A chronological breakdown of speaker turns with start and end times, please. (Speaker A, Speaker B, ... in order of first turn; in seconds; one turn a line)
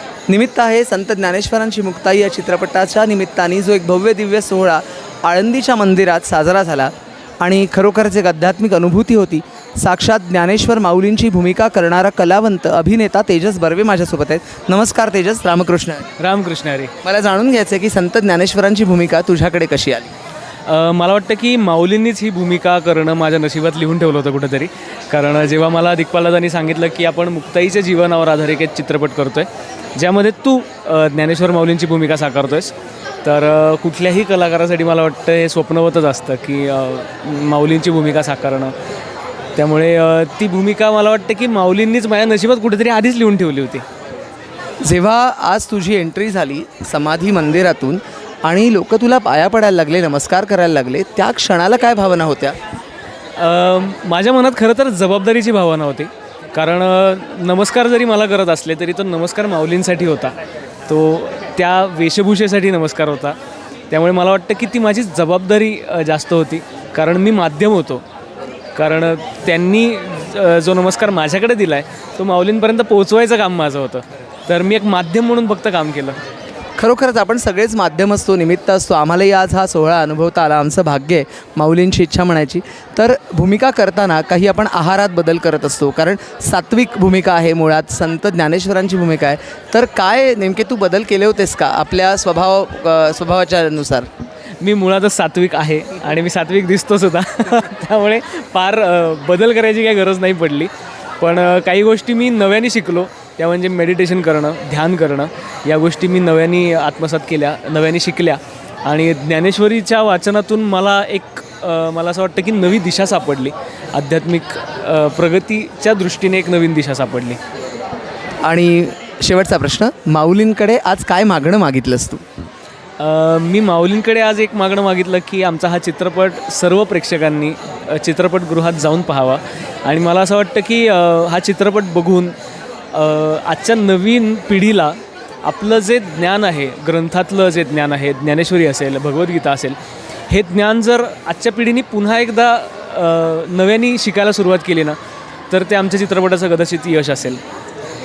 Speaker A: 0.3-16.1
Speaker B: 16.2-16.9
Speaker A: 17.0-20.1
Speaker B: 20.7-32.7
Speaker B: 33.2-38.7
Speaker B: 39.6-43.8
Speaker A: 44.8-52.6
Speaker B: 53.4-60.3
Speaker B: 60.9-63.4
Speaker B: 63.9-68.0
Speaker B: 68.8-76.2
Speaker A: 76.8-94.1
Speaker B: 94.6-117.4
Speaker A: 118.5-122.2
Speaker B: 123.0-132.3
Speaker B: 132.9-139.8
Speaker B: 140.3-145.0
Speaker B: 145.5-147.4